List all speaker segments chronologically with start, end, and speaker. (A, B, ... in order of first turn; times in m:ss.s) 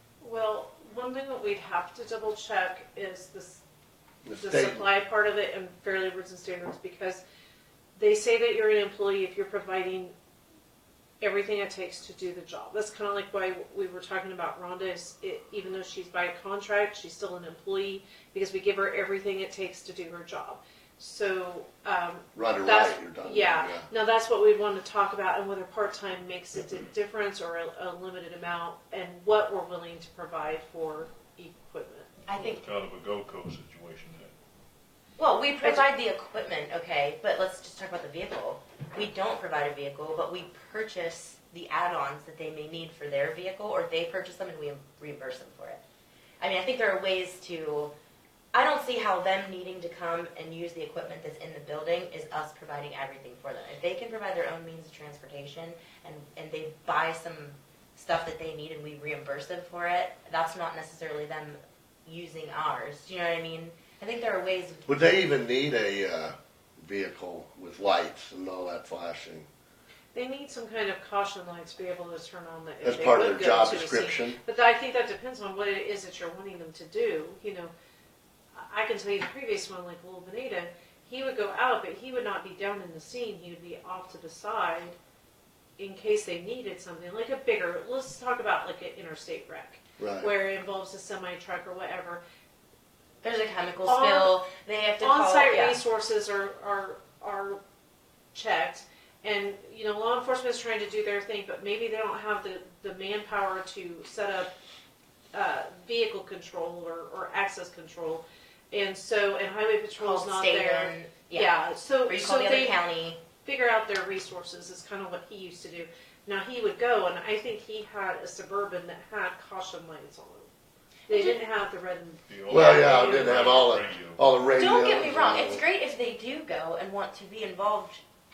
0:00.2-0:03.6 A
0:04.2-0:04.9 B
0:04.4-0:07.2 A
0:08.0-0:10.1 A
0:11.2-0:32.2 A
0:22.3-0:23.9 B
0:32.3-0:32.6 C
0:32.3-0:34.3 D
0:35.2-0:45.8 C
0:46.4-0:47.9 C
0:48.5-1:04.9 C
1:04.9-1:09.5 B
1:10.1-1:17.7 A
1:12.8-1:14.4 B
1:18.6-1:25.0 A
1:25.8-1:32.2 A
1:30.0-1:30.3 B
1:33.2-1:35.8 C
1:33.8-1:34.4 A
1:35.0-1:37.6 A
1:38.3-1:44.5 A
1:45.3-1:52.8 A
1:50.0-1:53.2 C
1:53.4-2:00.5 A
2:01.1-2:03.5 A
2:01.1-2:01.4 C
2:02.3-2:04.2 D
2:02.5-2:05.6 B
2:04.6-2:08.0 C